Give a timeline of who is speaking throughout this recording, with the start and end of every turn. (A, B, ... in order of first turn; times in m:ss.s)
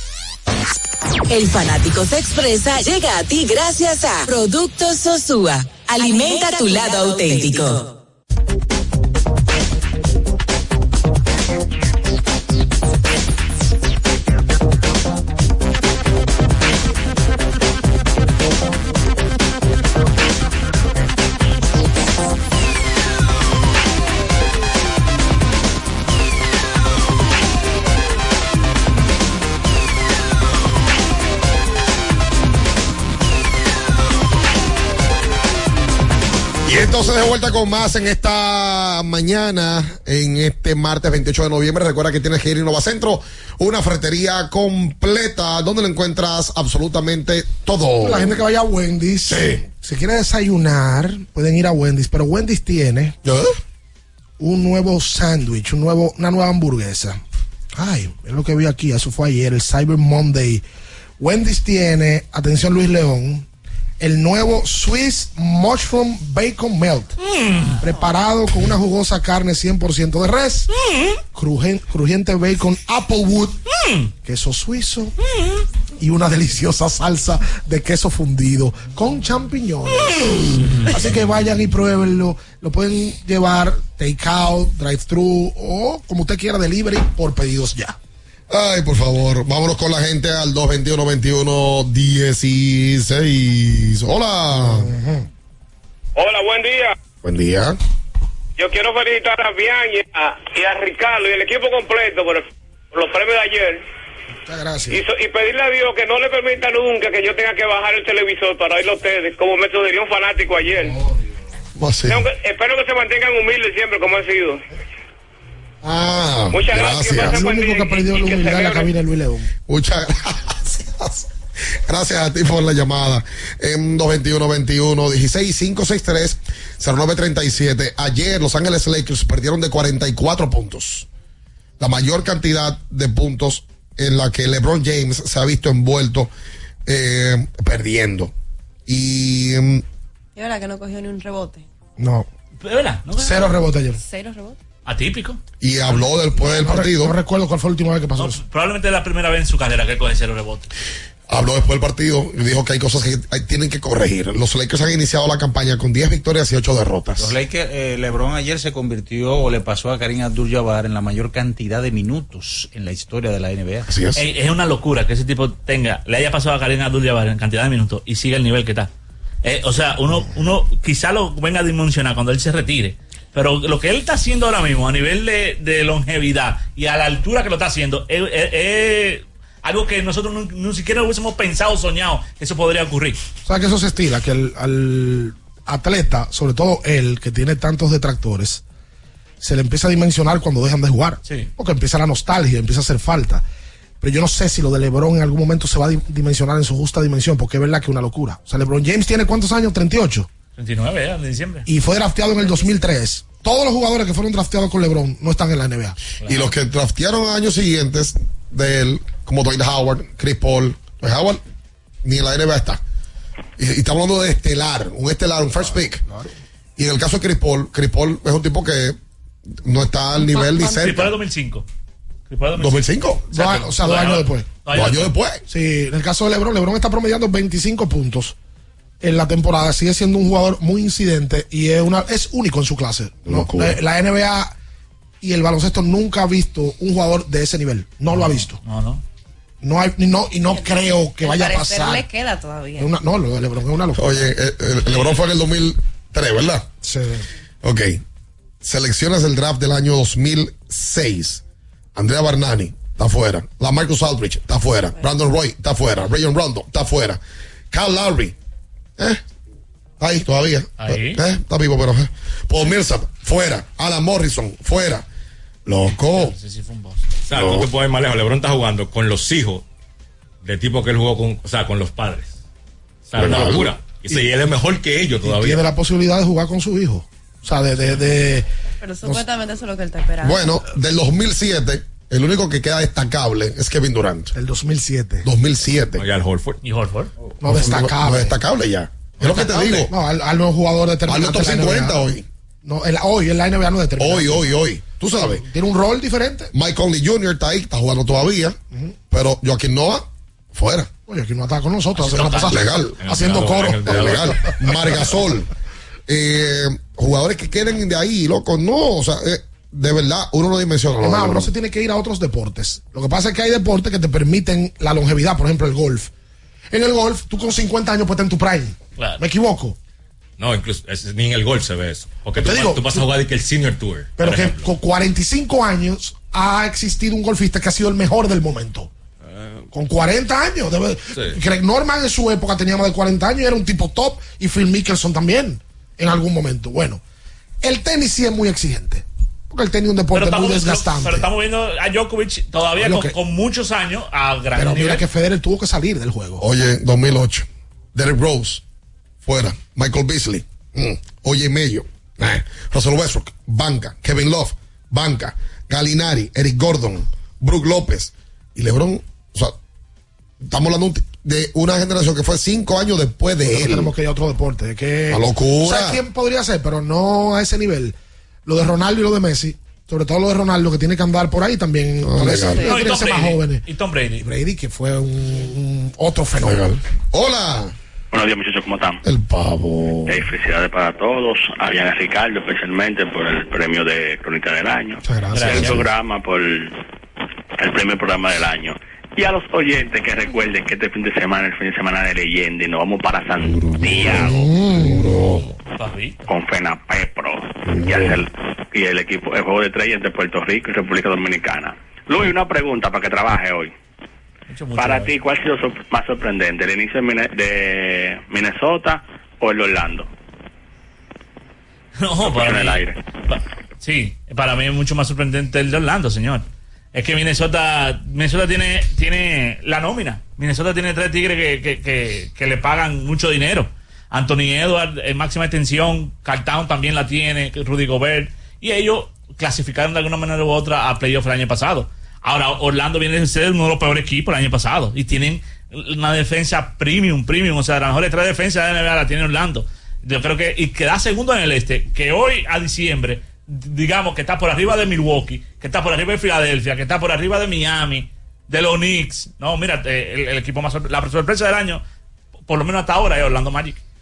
0:01.3-0:07.8 A
0:36.6-0:48.4 B
0:48.0-0:53.2 C
0:49.3-0:49.6 B
0:53.2-0:53.5 B
0:54.4-0:57.2 C
0:57.8-1:00.6 C
1:01.2-1:03.4 C
1:04.0-1:07.1 C
1:07.3-1:07.8 D
1:07.8-1:10.7 C
1:11.3-1:13.6 C
1:14.2-1:15.1 C
1:16.0-1:27.9 C
1:28.5-1:34.9 B
1:34.6-1:35.3 C
1:36.2-1:36.9 E
1:37.2-1:37.8 B
1:38.6-1:43.8 E
1:44.4-1:45.0 C
1:44.9-1:50.9 E
1:51.8-1:52.2 B
1:52.1-1:54.6 E
1:55.8-1:57.4 B
1:56.5-1:58.9 E
1:57.2-1:59.5 C
1:59.7-2:01.2 B
2:01.8-2:11.0 B
2:11.8-2:16.3 B
2:16.8-2:18.3 B
2:18.9-2:19.8 B
2:20.3-2:21.6 F
2:22.0-2:22.3 C
2:22.6-2:23.5 D
2:23.1-2:24.0 C
2:24.0-2:24.6 F
2:24.8-2:25.4 D
2:25.6-2:27.2 B
2:26.4-2:28.4 C
2:28.2-2:30.7 D
2:31.3-2:37.3 B
2:37.2-2:43.9 G
2:43.9-2:44.2 B
2:44.1-2:48.9 D
2:49.4-3:03.2 D
3:03.4-3:08.6 C
3:09.4-3:13.4 C
3:11.2-3:11.5 D
3:14.0-3:20.3 C
3:20.6-3:21.6 D
3:21.6-3:26.0 C
3:26.2-3:26.5 D
3:26.2-3:31.4 B
3:32.0-3:32.8 B
3:33.6-3:36.0 B
3:36.8-3:39.0 B
3:39.6-3:41.2 B
3:40.2-3:41.6 D
3:42.3-3:45.1 D
3:42.6-3:43.4 B
3:43.3-3:44.6 C
3:44.7-3:45.4 B
3:45.5-3:48.3 C
3:49.0-3:54.5 C
3:53.2-3:53.8 B
3:55.2-3:58.6 C
3:58.1-3:59.0 D
3:59.6-4:02.0 C
4:00.5-4:02.9 F
4:02.8-4:04.3 C
4:04.0-4:06.7 B
4:06.8-4:07.3 C
4:07.6-4:08.0 B
4:08.6-4:11.4 B
4:11.9-4:17.2 B
4:17.7-4:18.3 B
4:20.0-4:25.0 B
4:20.8-4:21.2 D
4:25.6-4:26.4 B
4:25.9-4:27.0 D
4:27.2-4:29.6 H
4:27.3-4:27.6 B
4:30.4-4:32.4 H
4:33.1-4:35.6 H
4:33.2-4:33.7 B
4:35.2-4:38.5 C
4:38.8-4:40.6 F
4:40.2-4:44.3 B
4:44.3-4:45.3 C
4:45.2-4:46.0 B
4:46.0-4:46.6 H
4:46.6-4:47.1 D
4:47.4-4:48.4 C
4:47.4-4:49.9 B
4:49.2-4:52.1 C
4:51.1-4:52.2 B
4:52.6-4:54.5 C
4:54.0-4:55.4 B
4:55.2-4:56.5 C
4:56.5-4:58.6 B
4:59.1-5:00.9 B
5:01.0-5:04.3 C
5:02.0-5:02.4 D
5:02.4-5:03.0 B
5:03.0-5:04.4 H
5:03.8-5:05.5 B
5:06.1-5:11.5 B
5:11.0-5:16.1 C
5:16.7-5:19.8 C
5:20.4-5:24.7 H
5:22.3-5:23.1 C
5:24.2-5:28.9 C
5:29.3-5:29.6 H
5:29.7-5:37.0 C
5:37.6-5:41.3 C
5:40.1-5:45.0 D
5:42.8-5:43.2 C
5:44.5-5:46.4 C
5:46.4-5:48.6 B
5:49.2-5:59.6 B
6:00.4-6:03.9 B
6:03.4-6:07.9 C
6:05.1-6:06.0 B
6:08.4-6:13.6 C
6:12.0-6:12.6 B
6:12.4-6:12.8 F
6:12.7-6:14.2 D
6:14.2-6:16.8 C
6:16.4-6:17.7 B
6:18.1-6:19.0 I
6:19.0-6:20.2 B
6:20.1-6:26.8 I
6:25.0-6:25.9 C
6:27.6-6:34.1 I
6:33.6-6:35.5 B
6:34.1-6:35.1 C
6:35.8-6:36.3 D
6:36.3-6:43.7 I
6:37.7-6:38.1 B
6:44.5-6:45.1 D
6:44.8-6:50.1 I
6:52.0-7:31.8 D
6:52.2-6:53.0 I
7:32.5-7:33.8 D